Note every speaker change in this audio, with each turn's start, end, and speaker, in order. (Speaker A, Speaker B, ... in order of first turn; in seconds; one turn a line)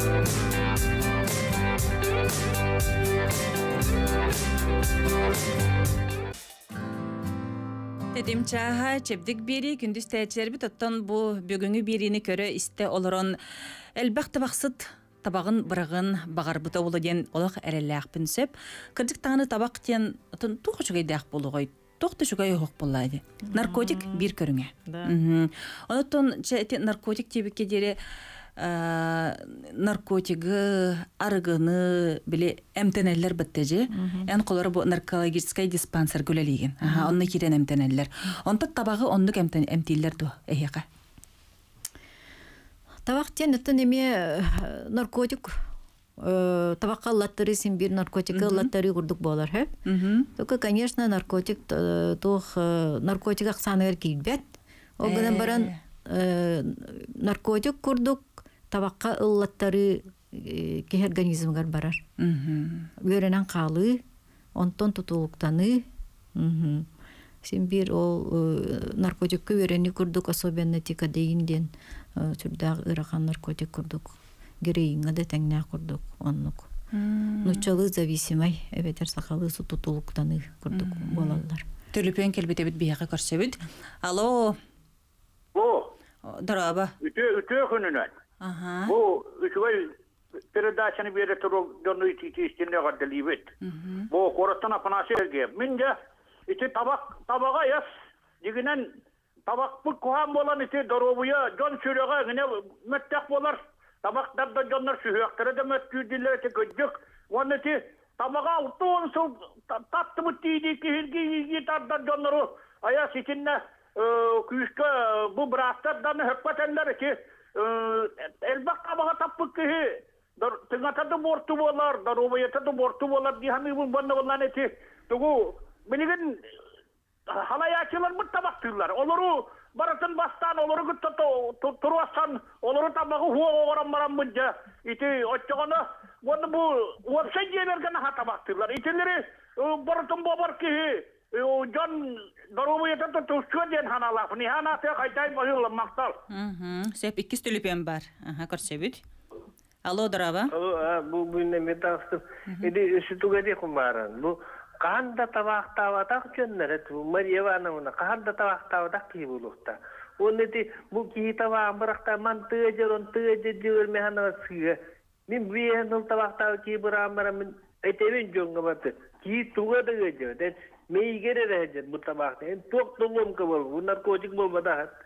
Speaker A: 8.1-13.4
Speaker A: 14.0-28.0
Speaker B: 23.5-24.3
Speaker B: 24.9-25.2
Speaker A: 28.6-40.9
Speaker B: 33.9-34.3
Speaker B: 36.8-37.3
Speaker B: 43.1-45.6
Speaker B: 46.2-49.7
Speaker A: 48.3-48.7
Speaker A: 49.9-50.3
Speaker B: 50.4-62.0
Speaker A: 55.0-55.8
Speaker A: 62.2-62.9
Speaker B: 63.0-64.0
Speaker B: 64.5-66.9
Speaker B: 67.4-76.7
Speaker A: 76.9-77.7
Speaker B: 77.5-81.7
Speaker A: 80.7-81.4
Speaker A: 81.9-84.6
Speaker A: 86.2-86.9
Speaker C: 87.0-88.1
Speaker A: 88.4-89.0
Speaker C: 88.9-89.9
Speaker C: 90.5-93.5
Speaker A: 93.6-94.1
Speaker C: 94.1-96.0
Speaker C: 96.5-97.9
Speaker C: 98.4-98.9
Speaker C: 99.5-126.4
Speaker C: 127.3-146.2
Speaker A: 146.3-149.0
Speaker A: 149.8-150.5
Speaker D: 150.5-164.8
Speaker D: 165.3-174.9